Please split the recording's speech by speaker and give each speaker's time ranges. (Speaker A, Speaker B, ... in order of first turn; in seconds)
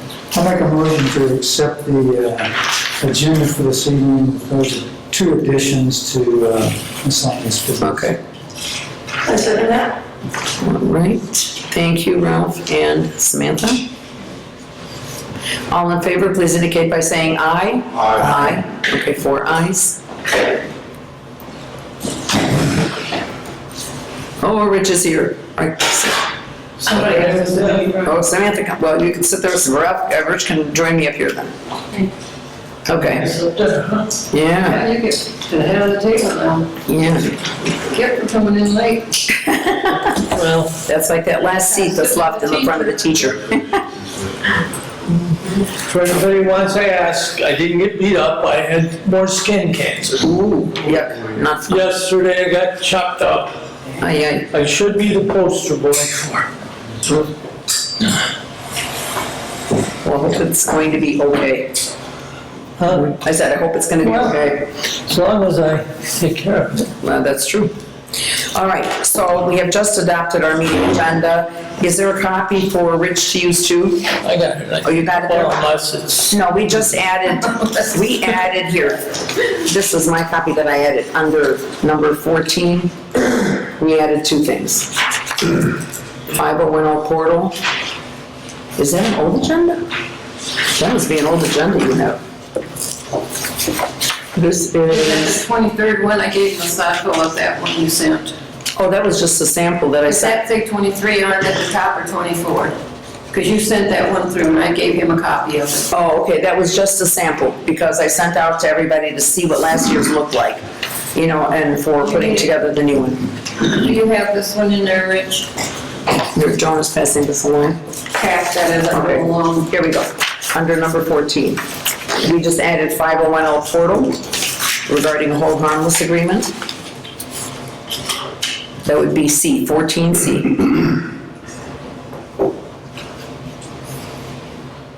Speaker A: 0.3-8.1
Speaker B: 7.8-8.2, 10.6-13.8, 15.7-20.0, 24.4-26.3, 28.0-31.5, 32.9-33.3, 34.3-34.9, 36.9-37.5, 39.5-40.0, 40.8-43.8, 50.2-51.9, 54.0-54.5, 60.0-61.7, 63.0-64.7, 67.0-67.7, 68.5-74.1, 74.8-75.6, 76.3-82.9, 83.8-84.9, 86.3-87.5, 88.8-89.8, 90.8-92.2, 94.3-95.4, 98.8-100.4, 105.9-110.6, 111.1-113.3, 116.3-117.8, 118.9-121.6, 122.2-124.2, 124.8-126.5, 128.8-130.9
Speaker C: 9.2-10.0, 26.8-28.2, 34.6-36.7, 37.9-39.2, 41.6-43.1, 94.8-98.3, 100.0-102.8, 103.3-105.9, 112.0-112.5, 113.6-115.5, 118.1-119.7
Speaker D: 26.8-27.9, 33.1-34.1, 40.3-40.7, 45.8-50.3, 51.6-53.5, 54.5-56.5, 62.8-63.2, 64.0-66.9, 74.2-76.4